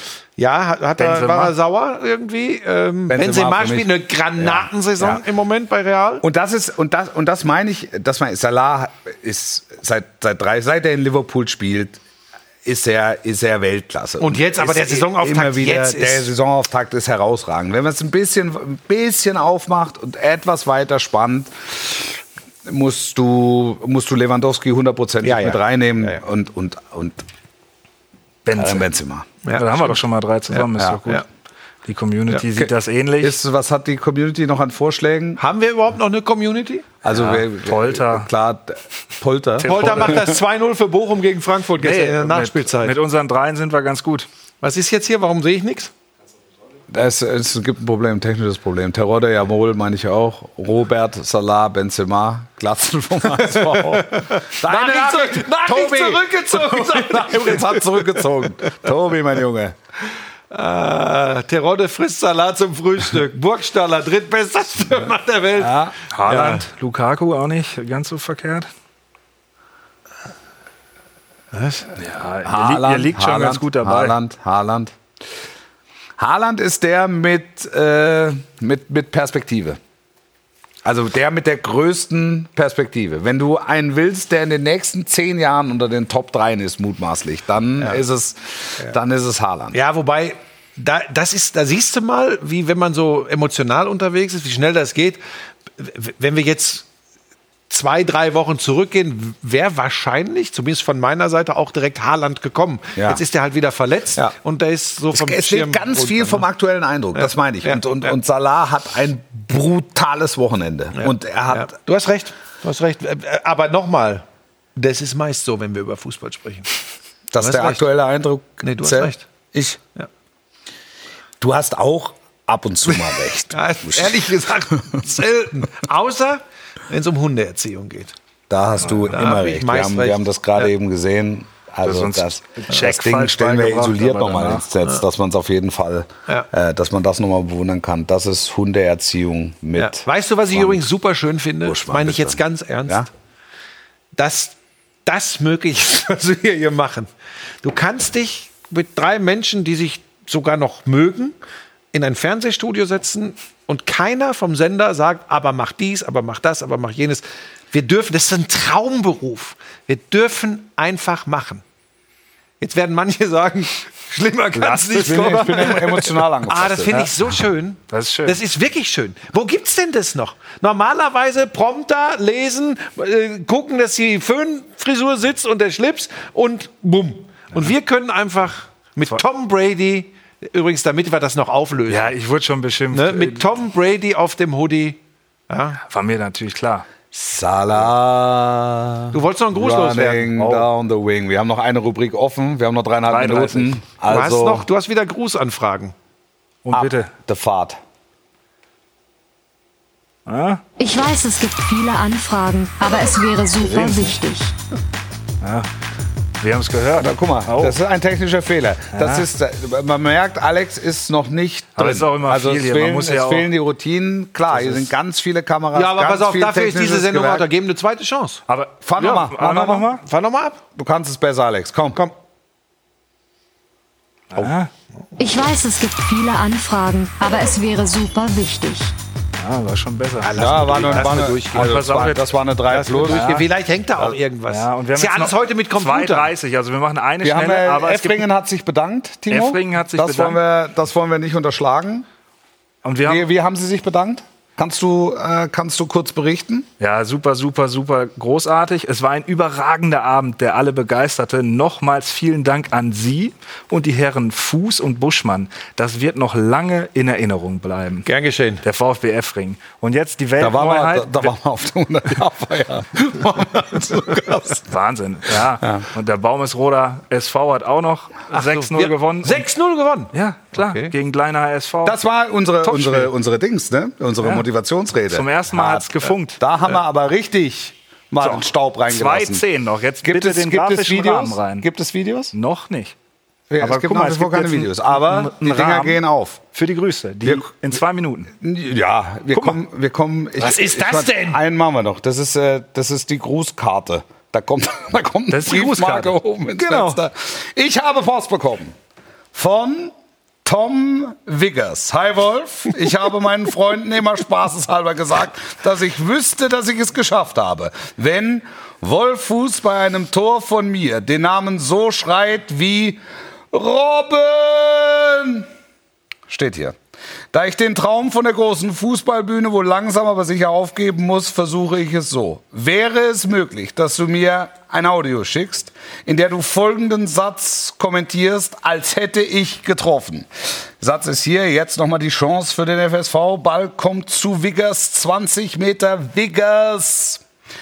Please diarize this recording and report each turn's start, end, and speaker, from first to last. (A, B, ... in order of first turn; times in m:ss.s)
0:00.4-0:06.2 A
0:01.0-0:01.5 B
0:03.1-0:05.2 C
0:06.2-0:12.0 C
0:12.6-0:27.2 C
0:14.2-0:16.3 A
0:25.2-0:26.2 A
0:28.4-0:28.9 B
0:28.6-0:29.3 C
0:29.4-0:29.9 A
0:29.5-0:31.2 B
0:30.5-0:31.2 A
0:31.8-0:33.4 B
0:32.6-0:35.4 C
0:35.4-0:36.9 A
0:37.0-0:40.3 C
0:37.1-0:38.3 B
0:39.6-0:40.3 B
0:39.6-0:43.0 A
0:41.8-0:44.3 B
0:44.6-0:45.9 A
0:46.9-0:59.7 C
0:53.3-0:58.7 A
1:00.5-1:06.6 A
1:05.6-1:05.9 C
1:06.1-1:08.7 B
1:11.5-1:11.9 A
1:12.0-1:14.2 B
1:12.4-1:14.9 C
1:16.2-1:19.8 C
1:20.8-1:29.8 C
1:29.7-1:35.2 A
1:35.8-1:36.8 A
1:37.7-1:46.4 A
1:45.1-1:51.7 C
1:47.2-1:48.2 A
1:50.9-1:56.7 A
1:57.3-1:59.8 C
1:57.4-1:57.8 A
1:58.6-1:59.2 A
2:01.4-2:05.0 C
2:02.9-2:08.1 A
2:08.5-2:20.8 C
2:08.8-2:09.1 B
2:09.1-2:10.7 A
2:11.8-2:14.6 B
2:19.8-2:23.1 A
2:21.6-2:23.1 C
2:24.2-2:27.1 A
2:27.6-2:31.4 A
2:31.9-2:41.6 A
2:42.6-3:02.1 A
2:44.5-2:47.1 C
2:47.9-2:48.4 B
3:01.9-3:03.4 B
3:02.9-3:05.8 A
3:05.8-3:06.9 B
3:07.1-3:14.6 C
3:09.1-3:10.4 A
3:10.3-3:10.7 B
3:13.0-3:13.8 B
3:14.1-3:15.9 A
3:16.6-3:17.1 B
3:16.7-3:17.8 C
3:20.2-3:20.6 B
3:20.8-3:24.5 D
3:23.6-3:24.2 B
3:25.4-3:25.7 B
3:26.4-3:27.8 B
3:26.9-3:37.5 C
3:28.9-3:29.2 B
3:31.8-3:33.5 B
3:34.5-3:34.9 B
3:35.7-3:38.4 A
3:38.5-3:40.0 B
3:38.8-3:39.9 C
3:40.0-3:40.6 A
3:40.8-3:42.0 C
3:44.3-3:44.7 B
3:45.2-3:48.9 D
3:49.4-3:52.3 B
3:50.2-3:51.8 A
3:50.3-3:53.4 C
3:52.7-3:56.3 A
3:53.1-3:53.4 B
3:54.5-3:58.2 B
3:57.2-4:02.0 C
3:59.3-4:00.4 B
4:02.8-4:03.2 B
4:03.0-4:06.7 C
4:06.8-4:18.1 B
4:18.0-4:18.6 A
4:18.6-4:21.3 B
4:20.4-4:24.6 C
4:24.7-4:29.5 B
4:28.3-4:30.9 A
4:30.1-4:32.0 B
4:31.8-4:39.4 C
4:32.7-4:33.1 B
4:34.2-4:34.4 B
4:35.1-4:36.4 B
4:38.2-4:41.7 B
4:40.0-4:42.3 C
4:42.3-4:42.9 B
4:43.5-4:46.4 C
4:43.6-4:46.0 B
4:46.5-4:48.3 B
4:47.2-4:47.5 C
4:48.4-4:58.7 C
4:49.3-4:49.6 B
4:50.4-4:51.4 A
4:55.3-4:57.0 B
4:59.3-5:13.0 C
5:13.5-5:15.5 C
5:16.3-5:16.8 C
5:17.3-5:30.3 C
5:30.8-5:37.2 C